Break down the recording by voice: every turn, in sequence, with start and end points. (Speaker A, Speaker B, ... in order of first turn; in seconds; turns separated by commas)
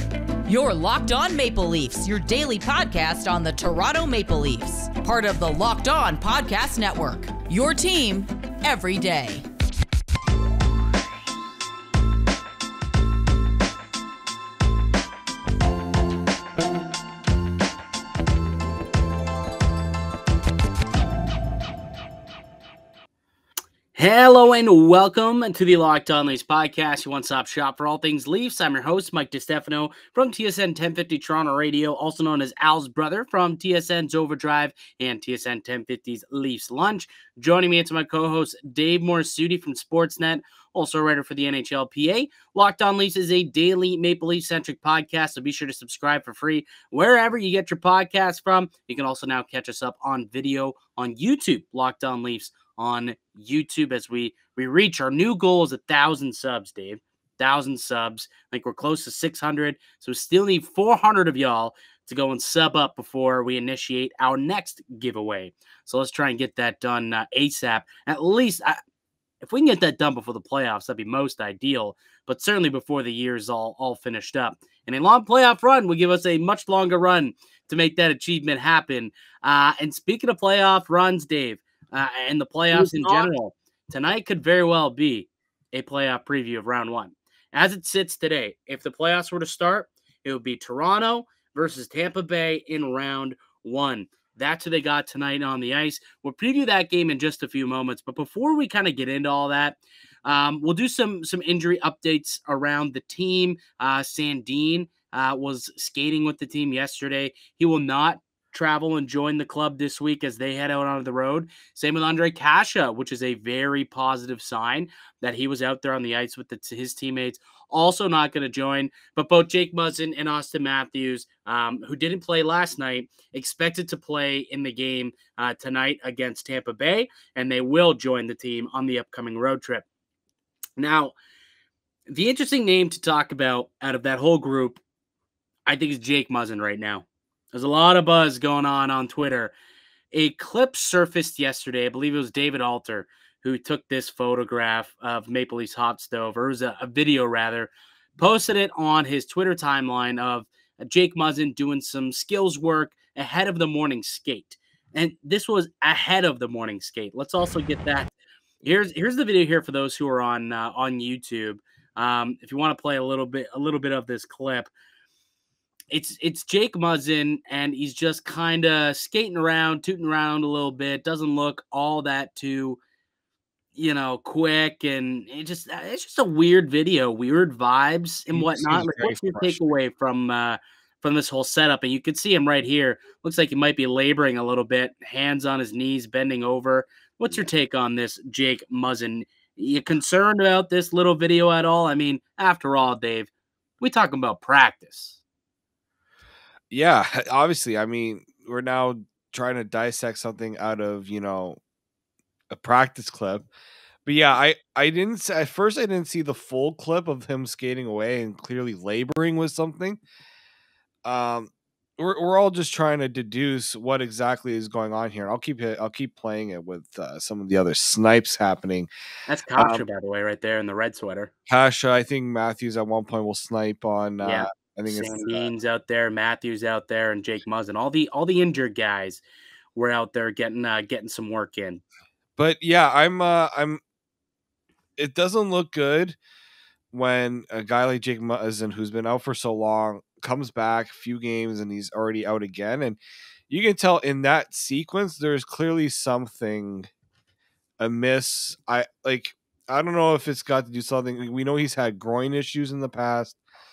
Speaker A: 0.5-9.4, Speaker B: 23.9-68.8, Speaker B: 69.4-129.8, Speaker C: 82.7-83.3, Speaker B: 130.8-131.1, Speaker B: 132.1-134.8, Speaker B: 135.7-139.5, Speaker B: 140.1-164.7, Speaker B: 165.9-172.8, Speaker B: 173.7-193.3, Speaker C: 178.3-179.6, Speaker B: 193.8-195.2, Speaker C: 196.7-201.6, Speaker C: 202.5-203.5, Speaker C: 204.1-210.0, Speaker C: 211.0-218.9, Speaker B: 219.3-221.3, Speaker C: 219.6-219.8, Speaker C: 221.5-225.5, Speaker B: 224.2-229.2, Speaker B: 229.7-231.8, Speaker C: 232.4-233.8, Speaker C: 235.0-236.2, Speaker C: 236.9-243.0, Speaker C: 243.5-246.9, Speaker C: 247.8-253.4